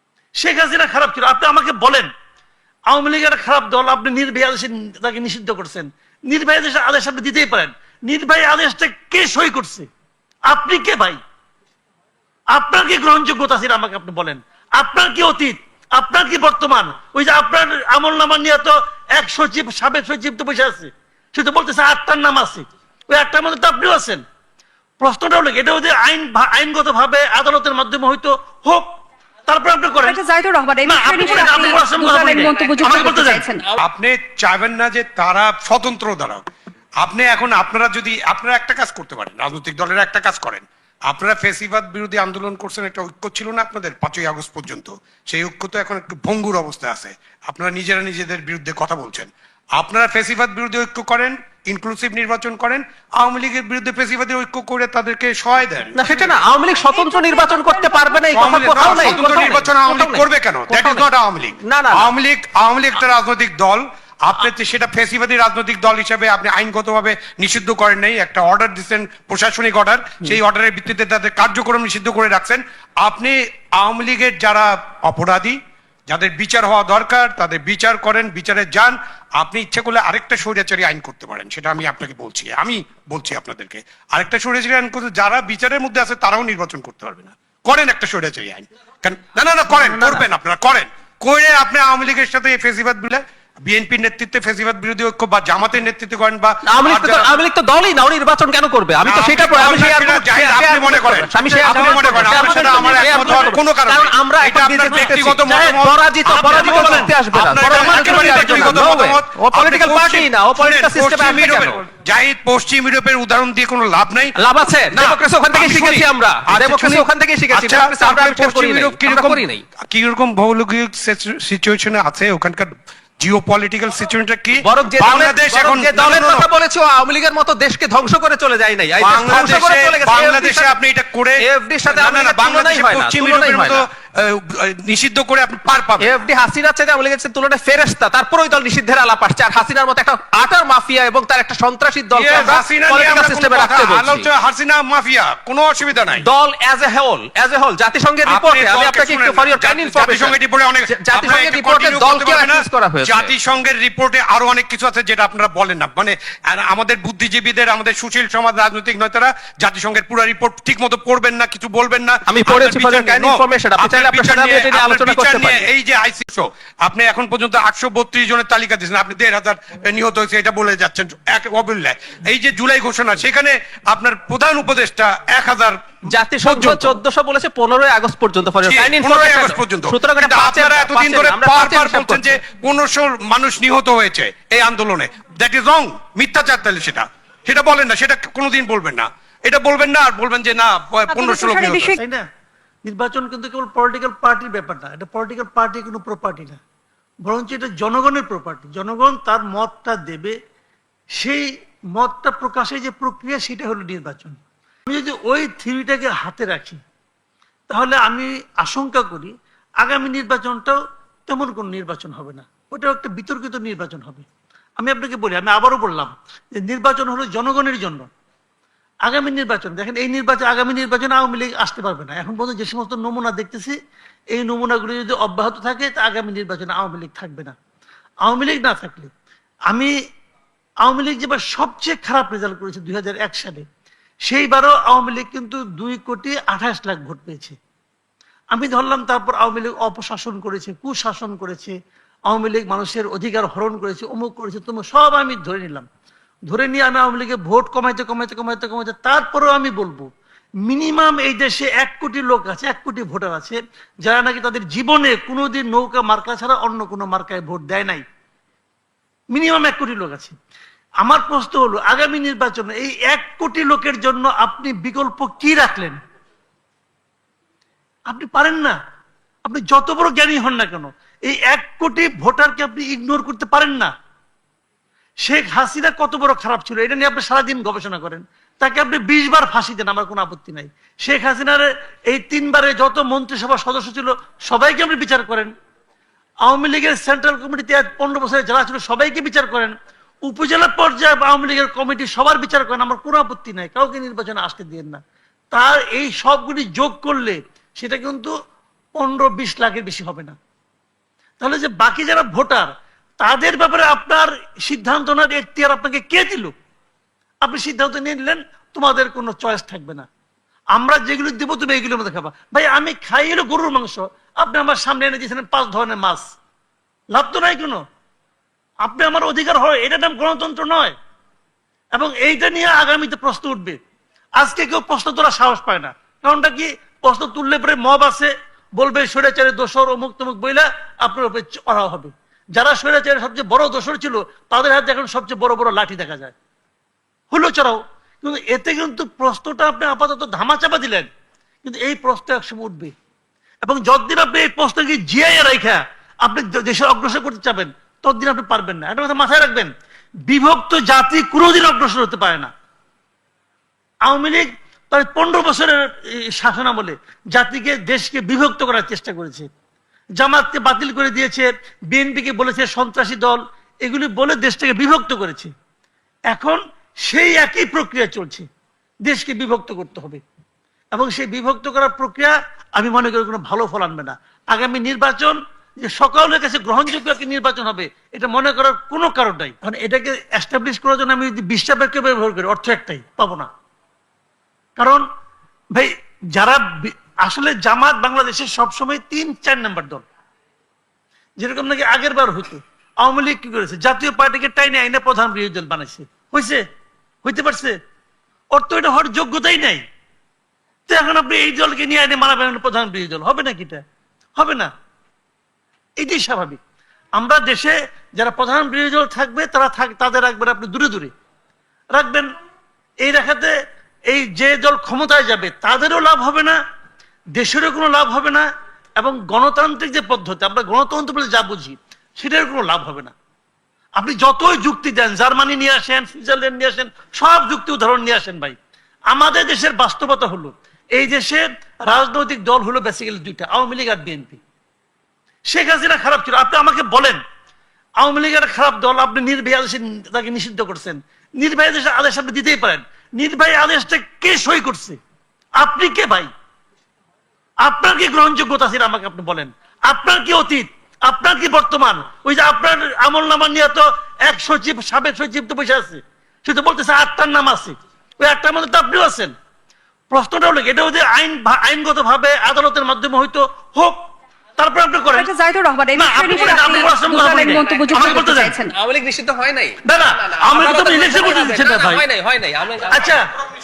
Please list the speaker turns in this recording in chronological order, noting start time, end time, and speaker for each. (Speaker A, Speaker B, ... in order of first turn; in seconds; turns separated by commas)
Speaker A: 0.4-2.1, Speaker A: 2.9-9.9, Speaker A: 10.5-11.2, Speaker A: 12.5-24.2, Speaker A: 25.0-28.9, Speaker A: 29.5-30.2, Speaker B: 30.0-33.7, Speaker A: 30.8-33.5, Speaker C: 33.8-36.4, Speaker C: 37.0-56.4, Speaker D: 55.9-61.0, Speaker B: 56.8-59.4, Speaker C: 58.3-97.3, Speaker D: 61.6-62.1, Speaker D: 89.7-90.2, Speaker D: 96.7-111.8, Speaker C: 99.0-114.3, Speaker A: 101.5-103.5, Speaker A: 105.5-107.1, Speaker A: 107.6-109.0, Speaker D: 114.4-119.6, Speaker C: 114.9-126.5, Speaker D: 124.6-130.7, Speaker C: 129.0-136.2, Speaker D: 131.4-133.8, Speaker D: 136.0-144.3, Speaker C: 142.1-146.3, Speaker D: 146.2-153.3, Speaker C: 148.2-175.8, Speaker D: 162.3-165.6, Speaker D: 176.1-182.4, Speaker C: 176.4-177.0, Speaker C: 178.6-191.9, Speaker B: 191.1-192.0, Speaker A: 191.9-192.2, Speaker A: 192.8-196.6, Speaker A: 197.2-200.3, Speaker A: 201.1-206.8, Speaker A: 207.7-214.2, Speaker A: 214.8-218.1, Speaker A: 219.0-223.8, Speaker A: 224.3-227.5, Speaker A: 228.2-229.1, Speaker A: 230.8-233.6, Speaker A: 234.2-237.6, Speaker A: 238.5-241.7, Speaker A: 242.3-245.8, Speaker A: 246.5-250.1, Speaker A: 250.6-258.0, Speaker A: 259.3-260.4, Speaker A: 261.0-266.0, Speaker A: 268.1-268.8, Speaker A: 269.4-273.9, Speaker A: 275.2-285.5, Speaker A: 286.4-289.7, Speaker A: 290.2-295.0, Speaker A: 295.5-298.3, Speaker A: 298.9-300.3, Speaker A: 301.4-306.5, Speaker A: 307.4-310.1, Speaker A: 310.7-316.2, Speaker A: 317.1-317.8, Speaker A: 318.8-320.9, Speaker A: 321.9-323.8, Speaker A: 324.4-336.3, Speaker A: 337.3-341.1, Speaker A: 341.6-342.9, Speaker A: 343.6-349.7, Speaker A: 350.2-352.5, Speaker A: 354.1-359.5, Speaker A: 360.2-365.5, Speaker A: 366.3-368.4, Speaker A: 369.0-370.2, Speaker A: 370.9-383.5, Speaker A: 384.8-385.0, Speaker A: 385.7-390.0, Speaker A: 391.4-396.6, Speaker A: 397.2-397.7, Speaker A: 398.5-399.8, Speaker A: 400.9-403.8, Speaker A: 404.4-404.7, Speaker A: 406.0-406.6, Speaker A: 407.1-411.1, Speaker A: 411.9-412.3, Speaker A: 413.0-413.5, Speaker A: 414.1-416.6, Speaker A: 417.4-423.1, Speaker A: 424.0-428.6, Speaker A: 429.1-434.4, Speaker A: 435.5-437.2, Speaker A: 438.0-445.0, Speaker A: 445.6-446.3, Speaker A: 447.6-459.3, Speaker A: 460.1-464.0, Speaker A: 464.6-465.3, Speaker B: 465.1-468.7, Speaker A: 465.9-468.6, Speaker D: 468.7-473.2, Speaker A: 469.8-472.0, Speaker A: 472.9-473.3